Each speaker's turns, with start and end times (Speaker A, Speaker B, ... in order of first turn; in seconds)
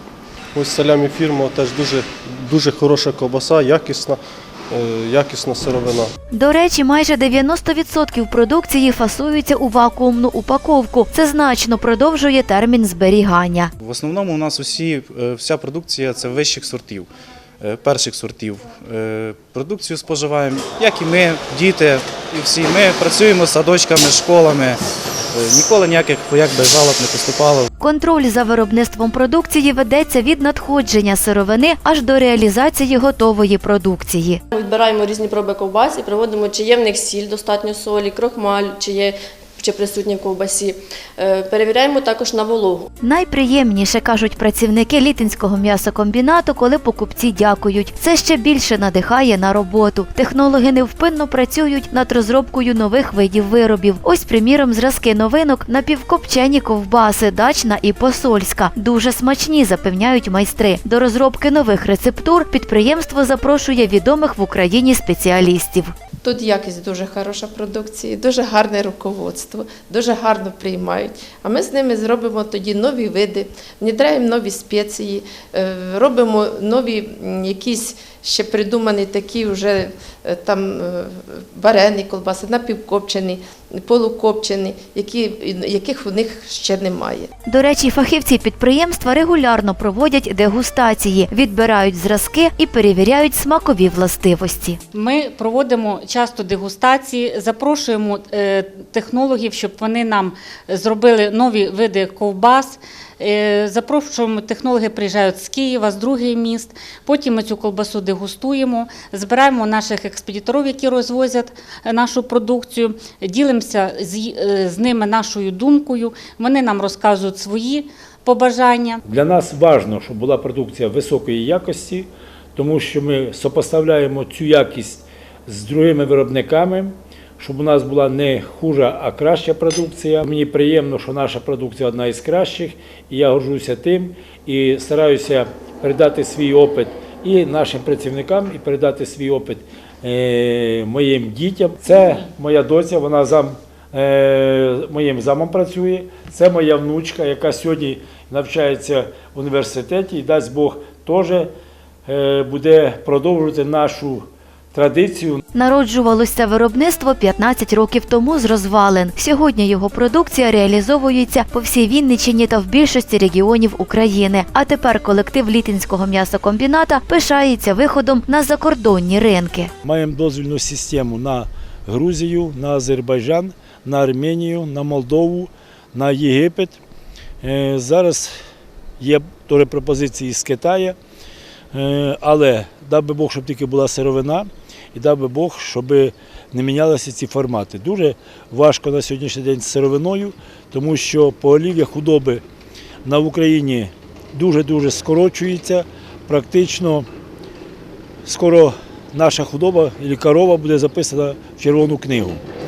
Speaker A: 0.5-4.2, 4.7-6.1
Speaker B: 6.3-13.7, 27.8-34.4, 43.0-65.9, 87.5-94.8, 155.5-169.7
Speaker C: 13.8-17.1, 17.6-24.8, 25.3-27.7
Speaker D: 34.5-42.9
Speaker E: 66.2-87.3
Speaker F: 94.9-119.0
Speaker G: 119.1-151.5, 152.1-155.4, 169.8-176.8, 177.4-178.3, 179.0-181.0, 181.7-192.4, 193.1-197.1, 198.3-202.4